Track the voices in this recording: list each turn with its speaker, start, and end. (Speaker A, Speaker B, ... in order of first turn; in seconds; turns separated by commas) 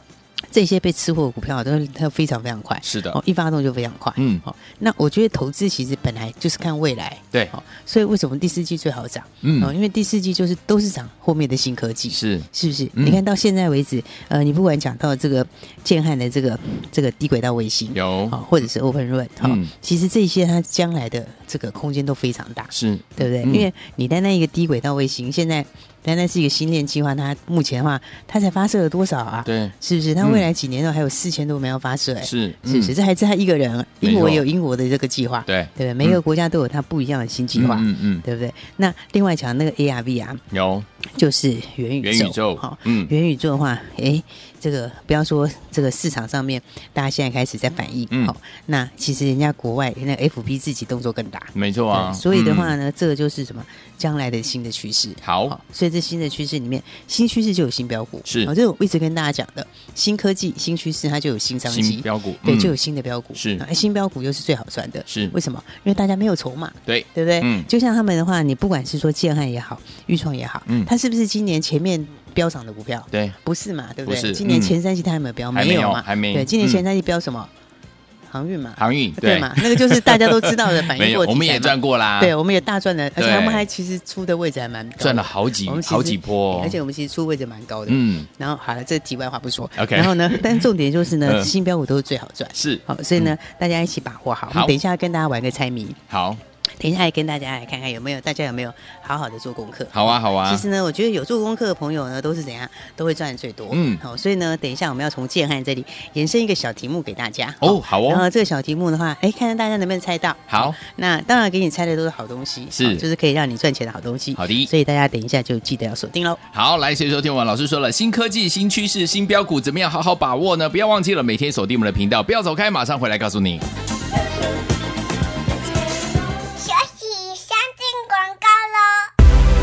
Speaker A: 0.5-40.4, Speaker B: 2.8-3.2, Speaker B: 4.2-4.4, Speaker B: 9.4-9.7, Speaker B: 12.1-13.2, Speaker B: 17.9-18.4, Speaker B: 19.4-19.7, Speaker B: 22.7-23.7, Speaker B: 29.4-30.4, Speaker B: 32.2-32.9, Speaker B: 34.0-34.4, Speaker B: 35.5-36.2, Speaker B: 37.5-38.2, Speaker B: 40.5-40.9, Speaker A: 41.1-77.5, Speaker B: 42.0-43.1, Speaker B: 51.5-52.7, Speaker B: 55.2-55.5, Speaker B: 58.2-58.5, Speaker B: 61.7-62.8, Speaker B: 63.3-63.6, Speaker B: 65.1-65.3, Speaker B: 66.8-67.7, Speaker B: 74.0-74.7, Speaker B: 75.5-76.8, Speaker A: 78.3-96.0, Speaker B: 78.8-82.3, Speaker B: 83.2-83.7, Speaker B: 85.0-86.8, Speaker B: 87.9-88.3, Speaker B: 89.8-90.6, Speaker B: 91.2-91.5, Speaker B: 92.5-93.3, Speaker B: 94.5-94.7, Speaker B: 96.1-96.4, Speaker A: 96.8-116.4, Speaker B: 99.9-100.6, Speaker B: 103.7-104.0, Speaker B: 107.6-108.2, Speaker B: 110.5-110.8, Speaker B: 112.7-113.0, Speaker B: 114.3-114.7, Speaker B: 116.5-123.6, Speaker C: 126.6-129.1